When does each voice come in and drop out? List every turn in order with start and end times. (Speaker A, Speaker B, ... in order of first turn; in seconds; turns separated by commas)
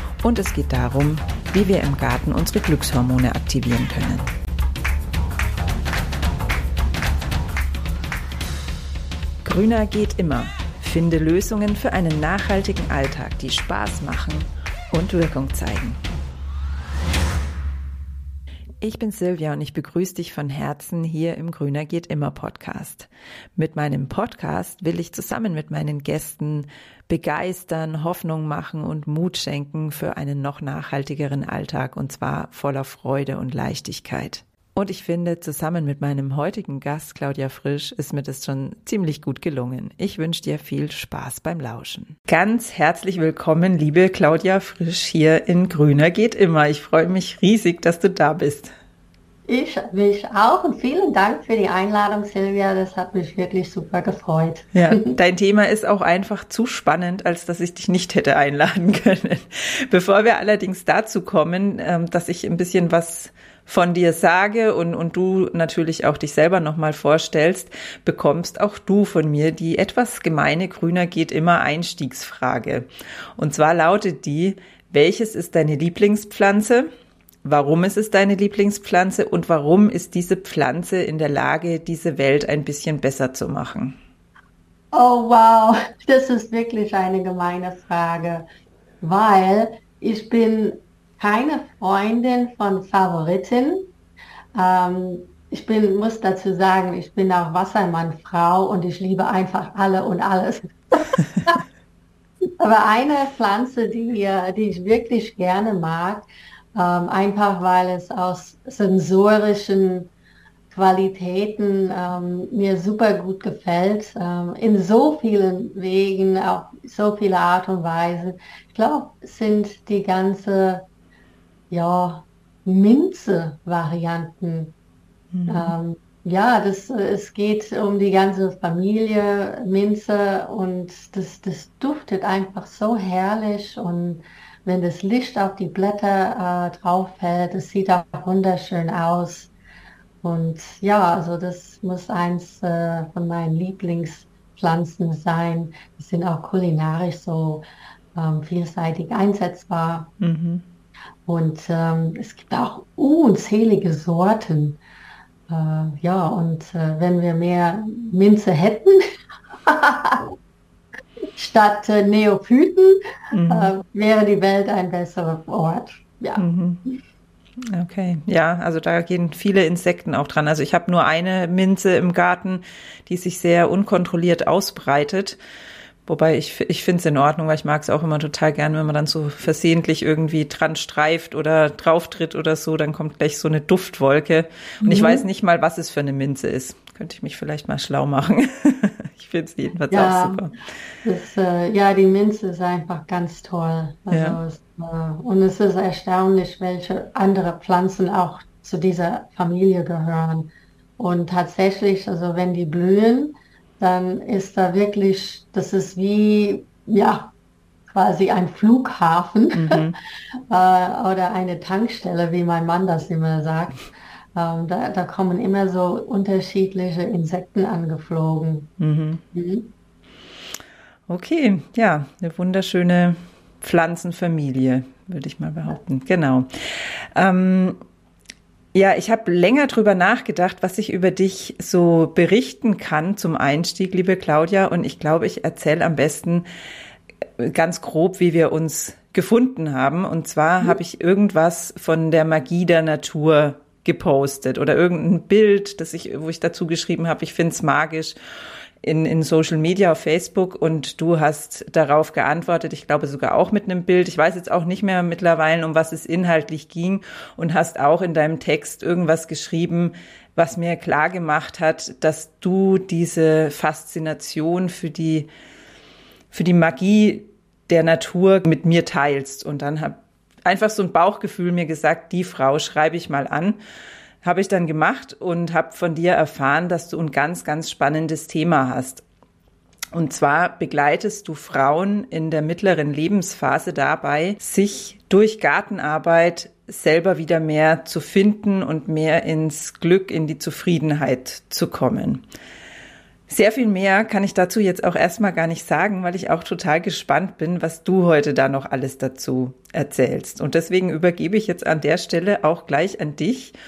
Speaker A: 0.2-4.3, Speaker A: 9.4-16.0, Speaker A: 18.8-48.7, Speaker B: 49.5-55.2, Speaker A: 54.8-72.9, Speaker A: 73.4-76.9, Speaker A: 77.4-84.0, Speaker B: 84.9-88.5, Speaker B: 89.0-93.9, Speaker B: 94.5-101.6, Speaker B: 102.6-110.1, Speaker B: 110.7-120.9, Speaker B: 121.7-124.8, Speaker A: 125.3-125.8, Speaker B: 125.5-139.5, Speaker B: 140.2-150.1, Speaker A: 150.2-150.6, Speaker B: 151.3-154.8, Speaker B: 155.5-159.0, Speaker B: 159.7-160.3, Speaker B: 161.4-167.0, Speaker A: 163.3-163.7, Speaker A: 166.4-166.8, Speaker A: 167.6-175.4, Speaker A: 176.1-190.5, Speaker B: 184.8-185.2, Speaker B: 189.9-190.5, Speaker B: 191.0-207.3, Speaker A: 194.1-194.4, Speaker B: 207.9-209.8, Speaker A: 209.6-210.0, Speaker B: 210.5-218.7, Speaker A: 218.8-219.2, Speaker B: 219.3-219.7, Speaker A: 221.1-227.8, Speaker A: 228.7-236.5, Speaker A: 237.4-248.2, Speaker A: 248.8-265.3, Speaker A: 266.3-273.6, Speaker A: 274.2-279.0, Speaker A: 279.9-292.2, Speaker A: 293.3-303.6